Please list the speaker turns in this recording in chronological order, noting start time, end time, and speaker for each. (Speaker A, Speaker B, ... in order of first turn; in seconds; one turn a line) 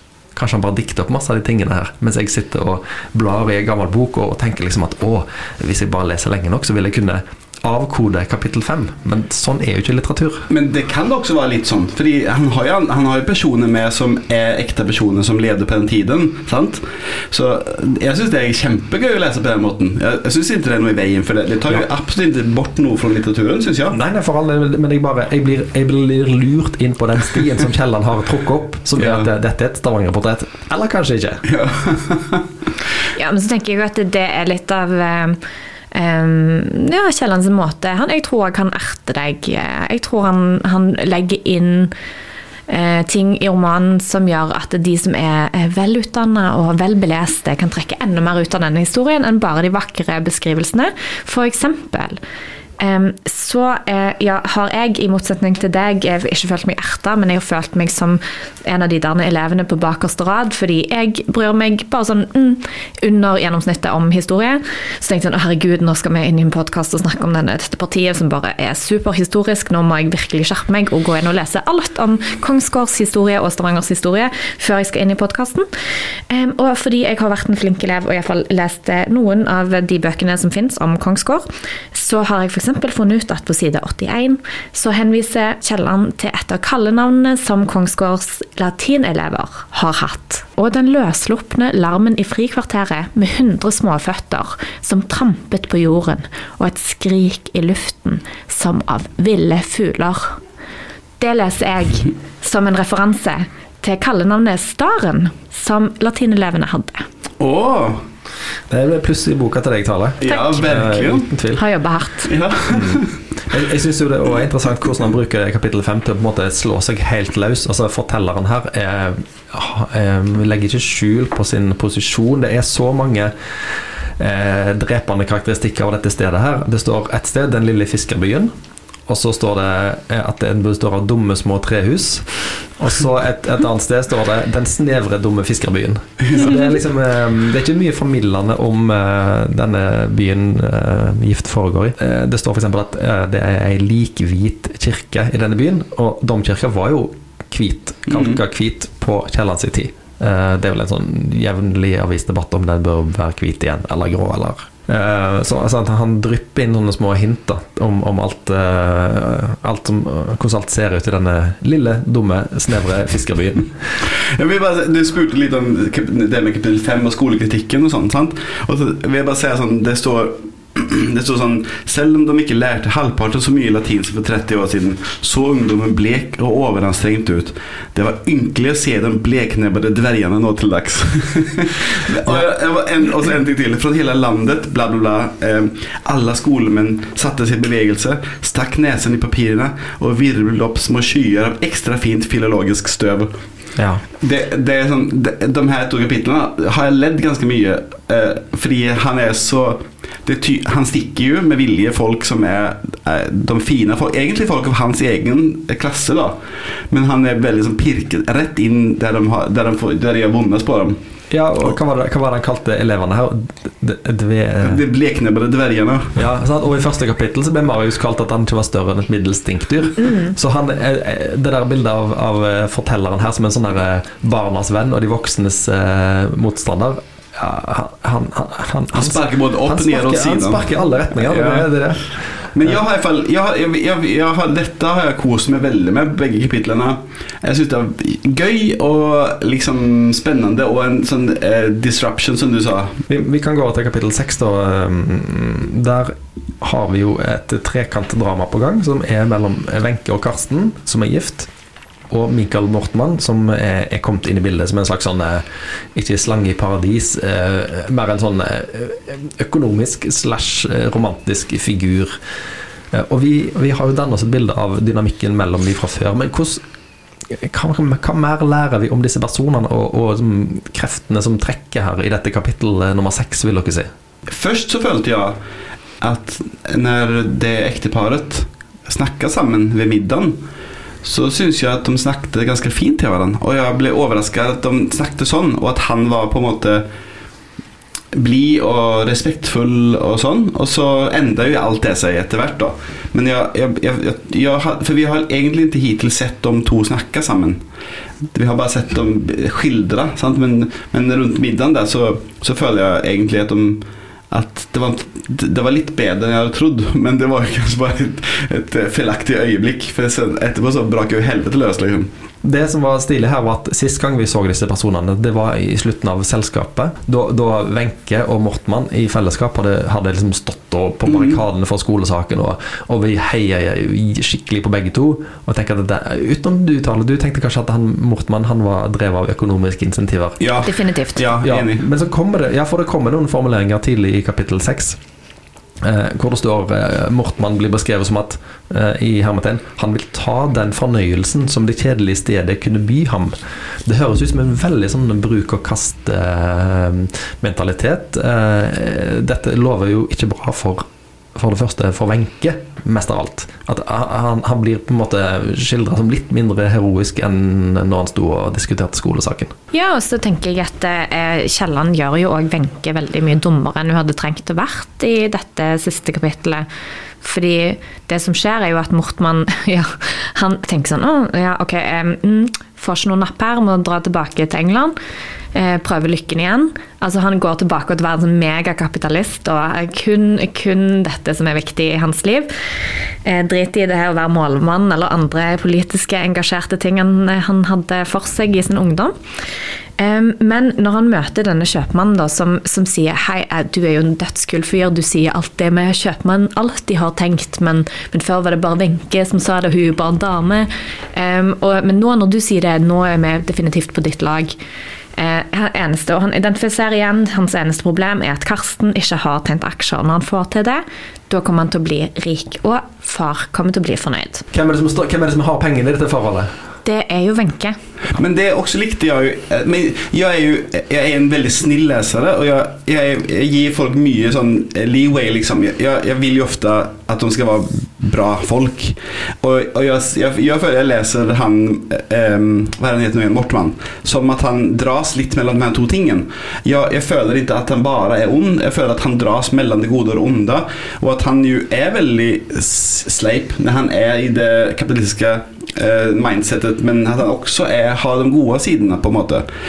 Speaker A: 0.3-10.5
Speaker B: 10.5-24.0
Speaker A: 23.9-31.4
Speaker B: 29.0-29.3
Speaker B: 31.4-32.5
Speaker C: 33.1-35.4
Speaker C: 35.9-41.9
Speaker C: 42.7-52.2
Speaker C: 52.8-75.7
Speaker C: 76.3-100.4
Speaker C: 101.2-107.0
Speaker B: 107.4-108.0
Speaker A: 108.7-111.6
Speaker B: 110.2-111.3
Speaker C: 111.5-112.3
Speaker B: 112.2-113.2
Speaker A: 112.7-123.3
Speaker A: 124.2-128.5
Speaker A: 129.1-163.7
Speaker B: 148.1-148.4
Speaker B: 164.0-193.3
Speaker A: 193.8-194.0
Speaker B: 194.2-206.4
Speaker B: 206.9-211.0
Speaker A: 211.3-214.8
Speaker B: 214.6-216.2
Speaker A: 216.2-232.8
Speaker B: 228.9-231.7
Speaker B: 232.5-243.0
Speaker A: 243.1-251.5
Speaker A: 252.1-255.4
Speaker A: 255.9-262.1
Speaker A: 262.9-266.6
Speaker A: 267.3-273.9
Speaker B: 274.3-275.4
Speaker B: 276.0-280.4
Speaker B: 281.0-286.9
Speaker B: 288.1-297.6
Speaker B: 298.3-312.1
Speaker A: 312.4-330.4
Speaker B: 321.1-321.4
Speaker B: 330.4-331.8
Speaker C: 330.6-331.2
Speaker A: 331.4-335.0
Speaker A: 335.8-350.8
Speaker A: 351.4-359.5
Speaker C: 359.7-366.7
Speaker C: 367.2-374.9
Speaker C: 375.5-382.5
Speaker C: 383.2-389.1
Speaker C: 390.0-404.6
Speaker C: 405.2-414.4
Speaker A: 414.5-416.5
Speaker C: 416.8-417.8
Speaker B: 418.1-449.5